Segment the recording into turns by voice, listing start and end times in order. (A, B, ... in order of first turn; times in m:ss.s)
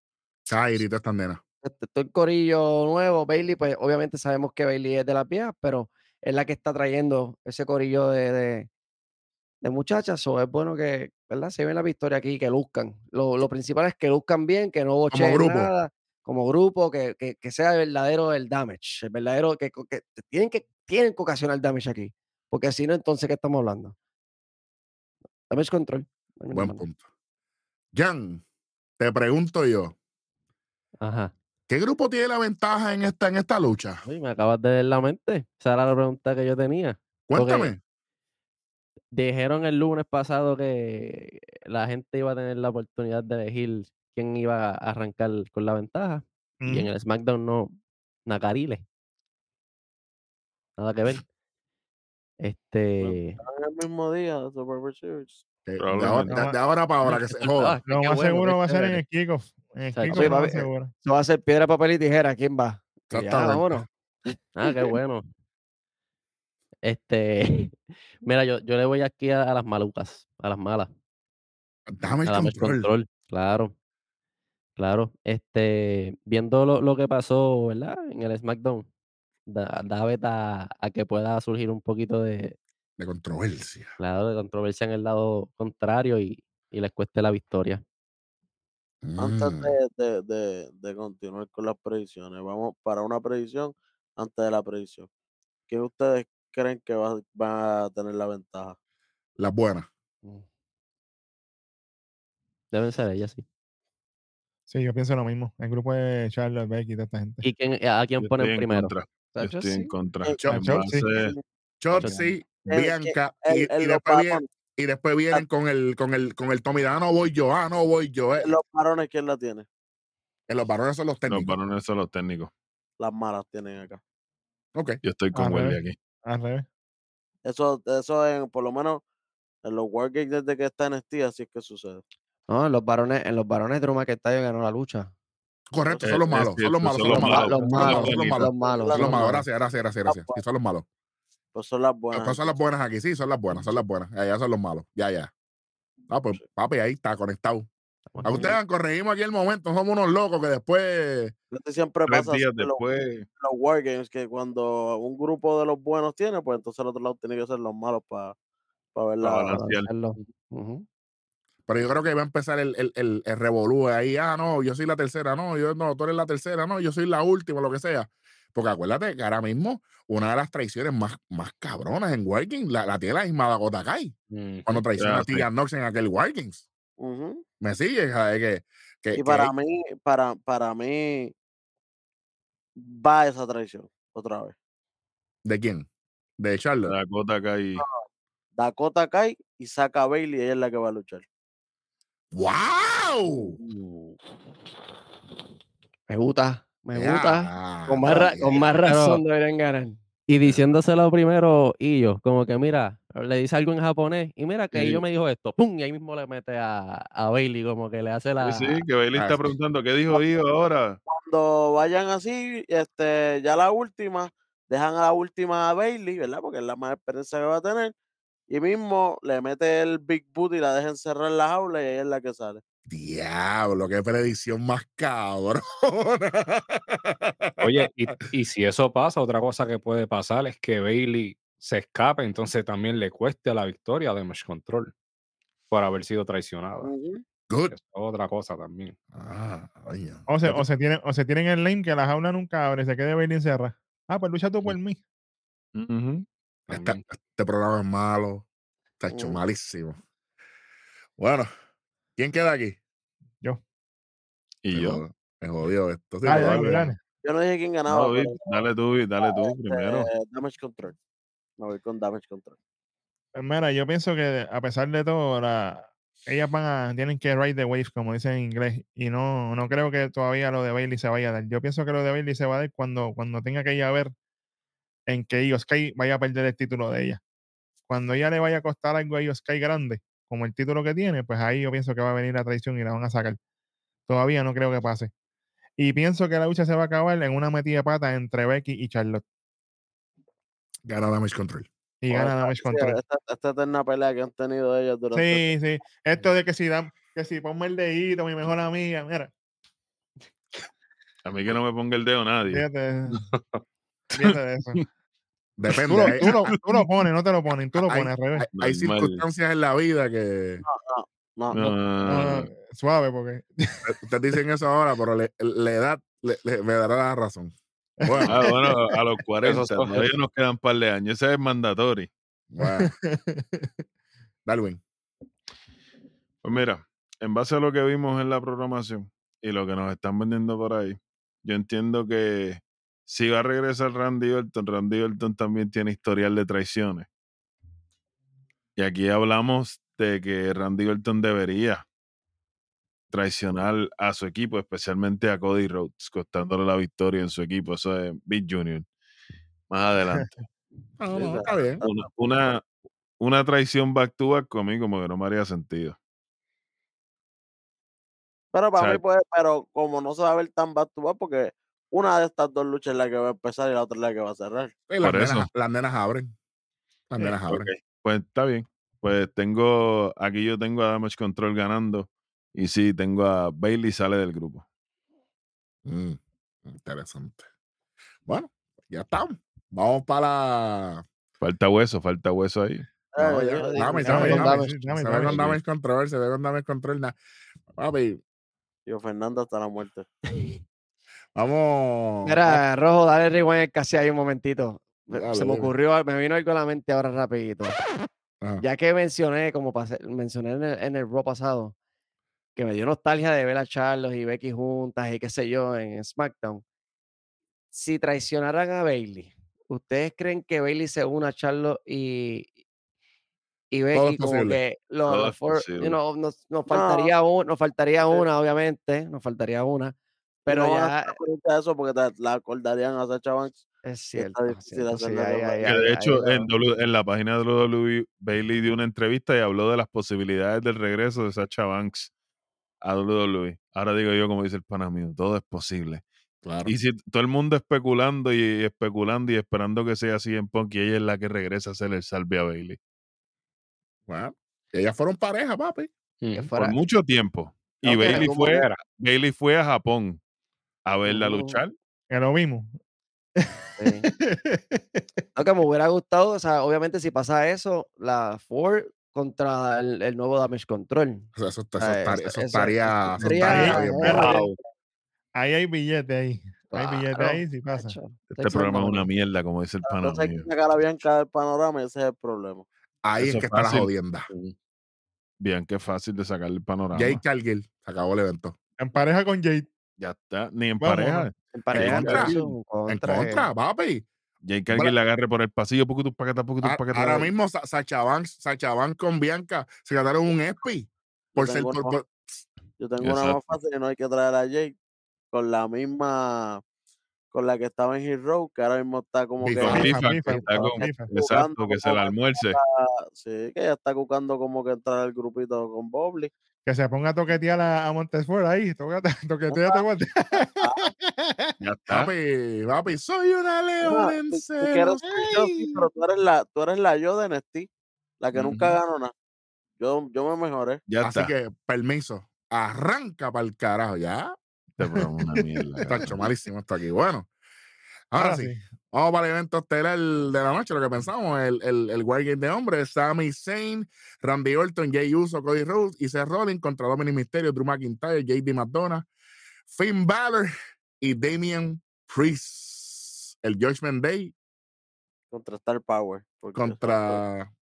0:00.5-0:01.4 A
0:01.6-0:08.7 B
0:09.6-0:23.9 B
0:15.1-0:15.7 A
0:25.5-0:26.8 B
0:26.5-0:27.0 A
0:27.9-0:28.4 A
0:29.0-0:29.9 A
0:31.0-0:31.3 C
0:31.7-0:34.0 A
0:34.0-0:37.7 C
0:37.3-0:37.8 A
0:39.1-0:48.8 C
0:46.6-0:46.9 D
0:50.8-0:51.2 C
0:52.4-0:53.4 C
0:53.0-0:55.4 E
0:55.6-0:57.8 A
0:55.8-0:56.3 F
0:56.2-0:56.6 D
0:57.0-0:59.0 C
0:57.8-1:00.9 D
0:59.9-1:00.3 C
1:00.1-1:03.8 B
1:03.1-1:03.8 A
1:04.6-1:05.2 C
1:06.8-1:10.9 C
1:11.9-1:12.9 A
1:12.2-1:13.7 C
1:14.8-1:18.9 C
1:19.5-1:22.6 C
1:23.0-1:23.9 A
1:24.0-1:27.8 C
1:29.0-1:29.7 A
1:29.2-1:35.1 E
1:35.7-1:38.8 E
1:39.4-1:39.9 A
1:42.7-1:43.4 C
1:44.7-1:47.4 D
1:47.4-1:48.9 C
1:48.2-1:51.3 F
1:49.3-1:49.9 B
1:50.2-1:51.4 E
1:50.5-1:51.0 D
1:51.8-1:58.5 A
1:51.9-1:52.3 C
1:52.6-1:54.4 E
1:58.4-1:59.7 E
2:00.5-2:01.6 A
2:01.3-2:02.5 F
2:03.0-2:04.0 E
2:04.7-2:05.0 A
2:05.0-2:06.0 F
2:05.3-2:06.6 D
2:07.4-2:09.0 E
2:09.6-2:12.0 E
2:12.5-2:15.1 B
2:15.7-2:20.8 A
2:15.8-2:16.2 E
2:16.0-2:18.5 F
2:17.1-2:19.4 B
2:17.2-2:19.4 E
2:20.0-2:20.4 E
2:21.5-2:22.6 E
2:22.1-2:25.3 A
2:26.1-2:27.7 A
2:28.2-2:28.5 C
2:28.2-2:31.3 A
2:28.3-2:28.6 E
2:31.5-2:32.8 E
2:32.1-2:33.3 F
2:33.4-2:38.3 E
2:38.9-2:39.6 E
2:39.2-2:39.9 F
2:39.5-2:40.8 B
2:41.7-2:54.1 A
2:54.3-2:54.8 G
2:54.7-2:56.6 A
2:55.0-2:55.5 F
2:57.0-2:57.4 E
2:57.6-2:59.5 A
2:59.1-3:01.3 E
3:02.8-3:04.5 E
3:05.4-3:05.9 A
3:06.4-3:06.9 A
3:06.8-3:07.8 F
3:07.8-3:08.0 E
3:08.6-3:11.2 E
3:12.3-3:13.6 A
3:13.6-3:14.1 E
3:16.1-3:20.0 B
3:16.9-3:18.8 A
3:18.8-3:19.2 C
3:20.3-3:28.8 C
3:24.7-3:25.0 F
3:28.4-3:31.0 F
3:29.1-3:29.6 A
3:31.1-3:37.9 E
3:38.5-3:42.6 E
3:42.9-3:47.7 A
3:47.6-3:54.9 G
3:55.7-3:56.9 G
3:56.8-3:57.2 E
3:57.7-3:58.9 G
3:59.1-4:00.6 A
4:00.3-4:05.0 D
4:05.7-4:06.2 F
4:06.7-4:08.4 A
4:06.7-4:07.0 G
4:09.0-4:10.0 A
4:09.1-4:09.4 E
4:11.2-4:11.5 A
4:12.2-4:12.8 A
4:14.6-4:15.0 F
4:14.7-4:16.9 A
4:16.2-4:17.0 D
4:17.2-4:18.6 E
4:17.9-4:20.1 F
4:19.2-4:21.0 E
4:21.6-4:22.6 E
4:23.3-4:34.1 D
4:35.1-4:37.2 D
4:37.9-4:43.4 D
4:44.1-4:45.1 D
4:45.8-4:49.2 D
4:50.8-4:51.7 A
4:52.0-4:53.0 D
4:52.1-4:55.5 E
4:55.1-4:59.3 D
5:01.2-5:02.6 F
5:02.5-5:03.2 D
5:04.1-5:04.8 D
5:04.2-5:04.8 F
5:05.6-5:06.5 A
5:05.8-5:08.5 D
5:06.0-5:06.6 F
5:07.7-5:10.6 A
5:08.5-5:09.2 F
5:10.6-5:11.8 E
5:11.5-5:12.5 F
5:12.0-5:13.9 D
5:13.8-5:17.5 A
5:18.0-5:18.7 D
5:18.0-5:18.4 A
5:18.2-5:22.1 F
5:19.4-5:20.0 G
5:22.5-5:22.9 A
5:22.6-5:23.7 D
5:24.4-5:24.8 A
5:26.4-5:37.1 F
5:38.8-5:41.8 F
5:43.1-5:48.9 F
5:49.7-5:50.4 F
5:51.0-5:51.8 A
5:51.1-5:51.9 E
5:51.8-5:52.7 F
5:53.2-5:56.0 F
5:58.5-6:04.7 E
5:58.8-5:59.0 F
6:04.9-6:06.3 A
6:05.0-6:05.5 F
6:07.1-6:07.7 A
6:07.2-6:14.6 F
6:15.8-6:17.4 A
6:18.2-6:21.0 A
6:21.4-6:22.9 F
6:23.1-6:24.3 E
6:23.2-6:27.2 A
6:23.4-6:24.7 B
6:24.0-6:25.4 D
6:25.3-6:25.6 F
6:27.8-6:28.2 A
6:28.8-6:30.1 E
6:31.3-6:32.6 A
6:32.2-6:37.8 B
6:35.1-6:35.7 A
6:38.6-6:41.7 B
6:42.6-6:46.6 B
6:47.7-6:52.5 B
6:53.7-6:59.9 B
6:53.9-6:54.6 A
6:55.0-6:56.0 F
6:56.7-6:57.1 E
7:00.4-7:01.1 B
7:00.5-7:05.8 E
7:03.8-7:06.5 B
7:05.6-7:12.1 F
7:12.8-7:16.0 F
7:16.4-7:16.7 A
7:16.6-7:22.8 F
7:24.1-7:25.9 A
7:26.2-7:26.5 G
7:26.3-7:26.8 B
7:26.5-7:30.2 F
7:27.8-7:28.6 B
7:28.0-7:28.8 G
7:30.8-7:31.7 F
7:31.0-7:31.6 B
7:32.1-7:32.7 D
7:33.4-7:35.0 D
7:33.8-7:34.0 B
7:35.3-7:44.6 B
7:41.4-7:44.3 A
7:43.4-7:44.5 D
7:44.2-7:44.5 G
7:45.3-7:48.0 D
7:46.7-7:49.1 B
7:48.3-7:50.5 F
7:49.8-7:52.6 E
7:53.0-7:54.3 A
7:53.2-7:54.5 F
7:55.4-7:57.2 F
7:56.9-7:58.6 A
7:58.8-7:59.7 D
8:00.0-8:02.5 F
8:00.8-8:01.3 D
8:01.5-8:03.5 B
8:01.7-8:02.4 A
8:02.9-8:04.1 A
8:04.4-8:07.3 F
8:06.6-8:12.4 A
8:11.3-8:12.0 E
8:12.8-8:14.7 E
8:13.0-8:13.4 F
8:15.3-8:16.6 E
8:17.3-8:26.3 E
8:19.4-8:19.9 A
8:19.6-8:22.6 F
8:19.7-8:21.1 D
8:26.6-8:31.5 D
8:29.5-8:29.8 E
8:30.4-8:30.9 E
8:31.6-8:32.1 F
8:31.9-8:35.0 A
8:33.8-8:37.7 E
8:35.0-8:35.8 D
8:38.2-8:39.1 E
8:38.3-8:38.8 F
8:39.8-8:40.8 E
8:40.9-8:41.3 F
8:41.0-8:44.3 A
8:44.8-8:46.2 F
8:44.8-8:45.9 D
8:45.8-8:47.3 A
8:48.1-8:59.1 A
8:48.1-8:48.6 D
8:59.7-9:04.3 A
9:05.3-9:07.2 E
9:06.5-9:07.5 A